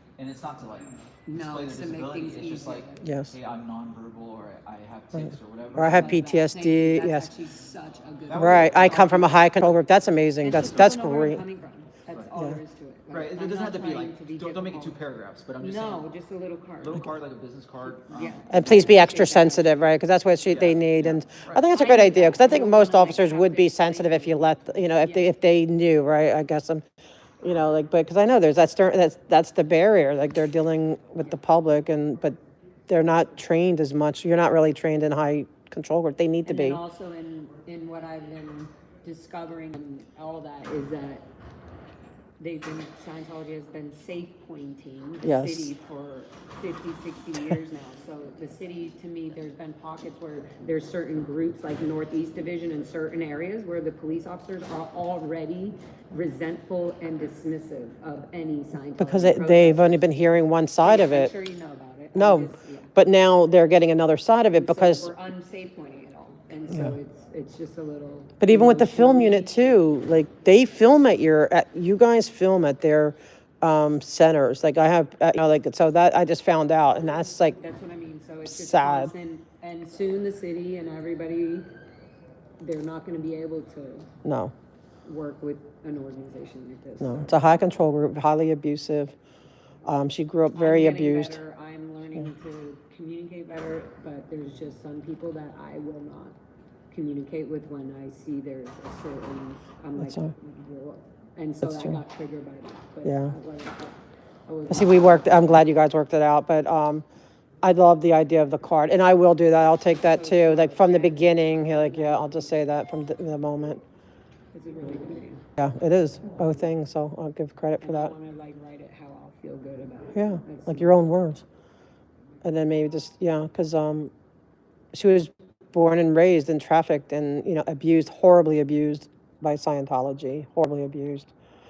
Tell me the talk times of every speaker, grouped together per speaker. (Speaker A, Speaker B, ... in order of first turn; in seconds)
Speaker A: 0.2-6.2, 8.3-9.4, 13.1-16.1, 16.8-18.9, 20.5-21.6
Speaker B: 1.2-3.1, 5.8-9.4, 10.4-15.0, 15.6-17.1, 17.8-19.9, 21.7-25.3, 36.4-41.3, 42.4-60.1, 60.8-62.9, 64.5-69.8, 77.5-81.7, 82.6-84.1, 85.0-87.3, 90.5-96.3, 96.9-105.6, 110.0-112.5, 114.5-115.4, 117.8-121.0
Speaker C: 3.0-3.3, 5.1-7.3, 8.3-11.4, 18.5-26.8, 27.4-32.4, 32.9-36.8, 45.2-45.7, 59.0-61.3, 62.1-65.1, 68.4-77.6, 78.5-79.1, 84.2-84.5, 87.0-89.1, 89.8-91.4, 100.0-100.3, 101.6-102.0, 103.0-103.3, 104.7-107.0, 107.6-113.8, 115.6-118.1, 120.1-121.4, 122.4-124.1, 124.9-131.3